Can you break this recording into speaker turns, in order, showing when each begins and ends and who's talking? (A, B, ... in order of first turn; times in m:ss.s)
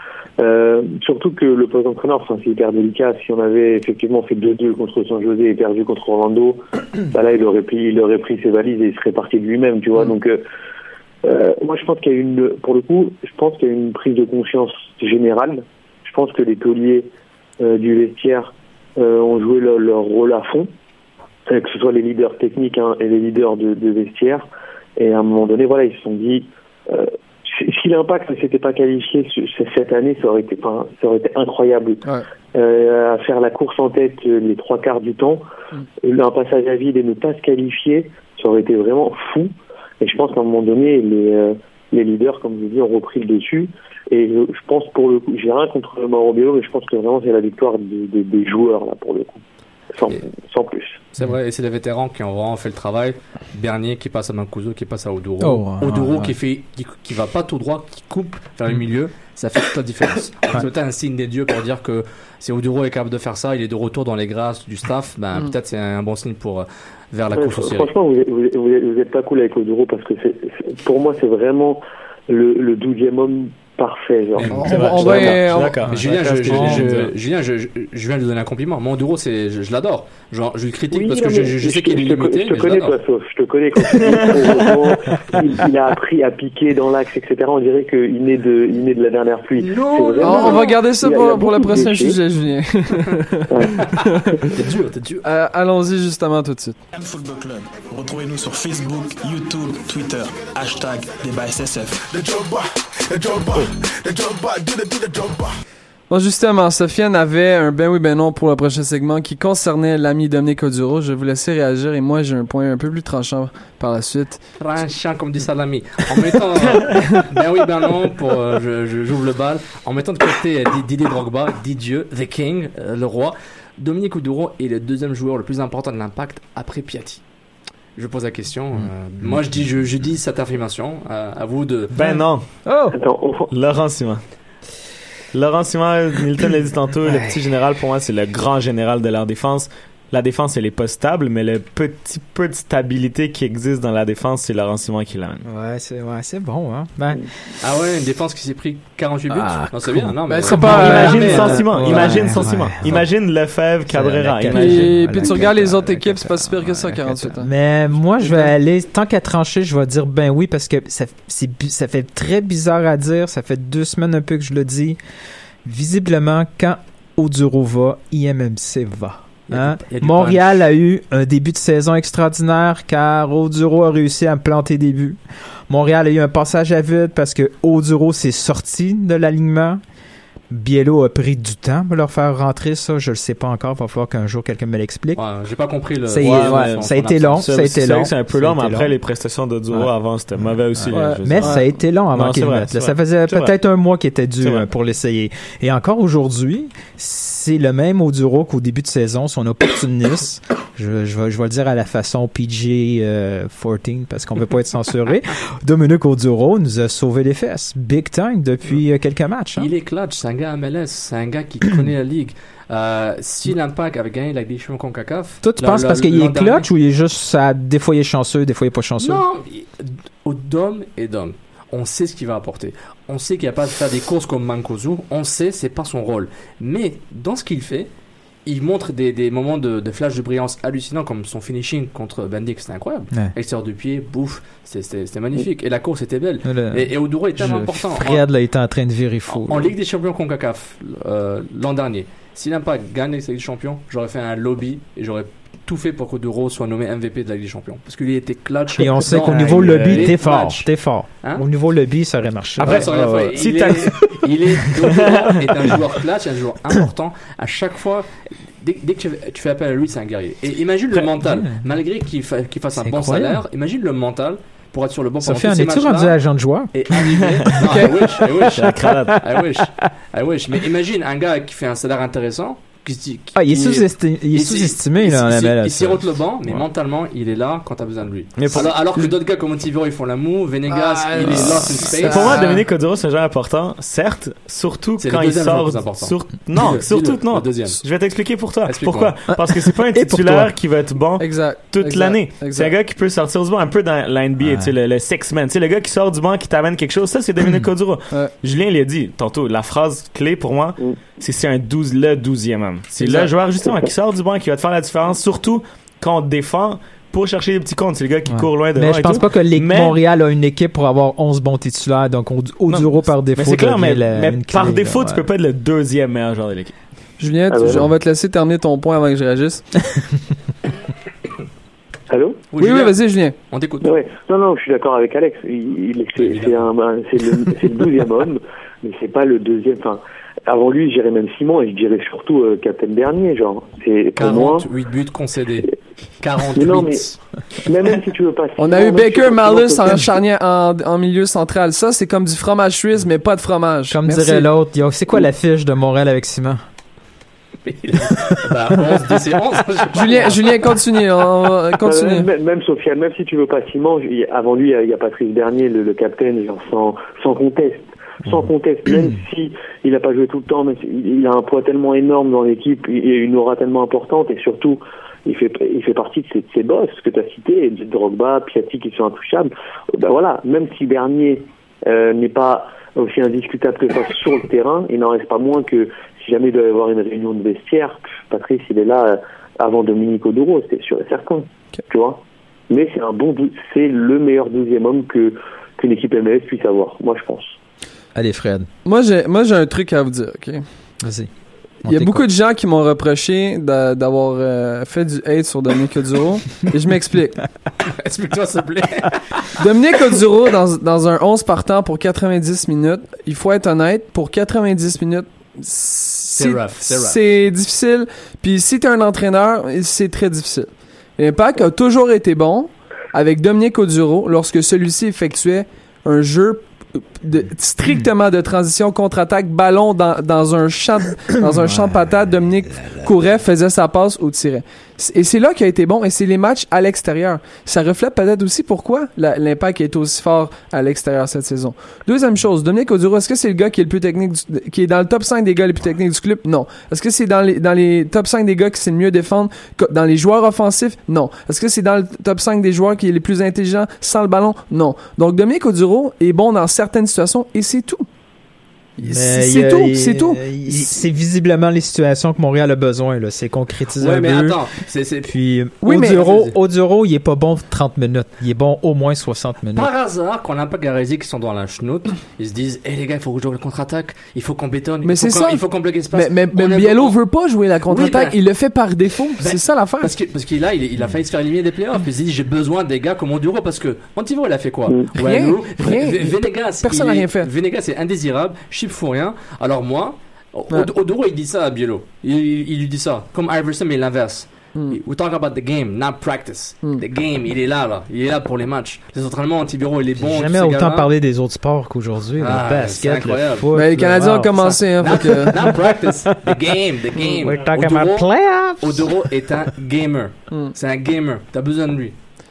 0:00.4-0:10.4 A
0:11.2-0:17.1 A
0:17.6-0:20.7 A
0:21.5-0:24.4 A
0:25.0-0:32.0 A
0:32.5-0:35.4 A
0:36.0-0:49.4 A
0:49.9-0:51.0 A
0:51.1-1:07.9 B
0:55.4-0:56.4 C
1:07.3-1:14.5 A
1:14.4-1:23.0 B
1:14.5-1:15.8 D
1:14.7-1:17.1 E
1:15.8-1:17.0 C
1:20.9-1:32.2 A
1:24.0-1:24.9 E
1:29.6-1:30.8 B
1:30.2-1:33.5 D
1:33.5-1:34.4 A
1:34.0-1:34.5 D
1:34.5-1:35.2 B
1:35.2-1:36.8 D
1:36.9-1:45.5 F
1:46.1-1:54.4 D
1:54.6-2:07.2 B
2:08.0-2:11.9 B
2:11.9-2:12.6 E
2:12.0-2:13.0 C
2:12.9-2:13.5 A
2:13.5-2:14.2 E
2:15.3-2:25.4 E
2:17.0-2:17.4 C
2:25.4-2:27.5 C
2:27.6-2:33.1 B
2:29.3-2:33.1 C
2:30.3-2:31.8 D
2:30.5-2:35.5 E
2:33.9-2:45.0 C
2:34.5-2:37.5 D
2:38.2-2:38.5 D
2:45.6-2:59.8 C
2:49.5-2:50.6 B
3:00.5-3:05.2 C
3:05.2-3:07.5 B
3:06.0-3:08.9 C
3:06.2-3:13.5 E
3:09.7-3:29.7 C
3:10.9-3:11.7 D
3:29.6-3:36.7 B
3:35.4-3:39.2 C
3:39.0-3:47.9 B
3:48.4-3:58.2 B
3:56.4-3:59.7 C
3:59.3-4:10.7 B
4:08.8-4:12.9 C
4:09.2-4:10.2 E
4:12.6-4:15.8 E
4:12.6-4:26.2 B
4:20.9-4:21.6 C
4:22.8-4:23.4 C
4:25.2-4:27.4 C
4:26.7-4:42.5 B
4:27.6-4:27.9 D
4:28.5-4:29.2 E
4:28.6-4:29.9 C
4:33.4-4:36.6 C
4:38.4-4:39.1 E
4:40.7-4:42.7 D
4:41.3-4:41.8 C
4:41.8-5:10.0 E
4:45.0-4:47.8 B
4:48.6-4:49.1 B
4:49.3-4:50.6 C
4:51.2-4:52.8 D
4:54.4-4:54.7 C
5:03.0-5:03.3 D
5:08.3-5:15.2 C
5:12.7-5:16.8 E
5:17.2-5:19.7 D
5:17.5-5:17.9 A
5:22.1-5:22.4 A
5:22.5-5:24.0 B
5:22.6-5:23.4 D
5:23.8-5:34.7 A
5:26.2-5:26.7 B
5:34.2-5:37.2 B
5:36.5-5:40.1 A
5:38.6-5:44.5 D
5:43.9-5:46.6 C
5:47.6-5:51.0 B
5:48.0-5:48.4 C
5:49.9-5:52.3 D
5:51.8-6:27.6 A
6:28.2-6:28.7 C
6:28.8-6:30.6 D
6:31.0-6:31.3 C
6:31.8-6:32.2 C
6:31.9-6:37.4 D
6:37.8-6:39.4 B
6:39.6-7:28.0 D
6:46.4-6:47.2 B
7:01.4-7:02.2 C
7:02.7-7:03.1 C
7:29.0-7:30.8 D
7:29.0-7:34.6 C
7:34.0-7:35.4 B
7:35.3-7:39.9 C
7:35.8-7:36.3 D
7:36.1-7:36.5 B
7:39.8-7:47.2 B
7:45.0-7:50.1 D
7:47.9-7:48.4 B
7:49.4-8:11.1 B
7:55.1-7:57.5 D
8:10.2-8:15.9 C
8:12.4-8:22.2 B
8:13.7-8:15.7 D
8:17.4-8:19.2 C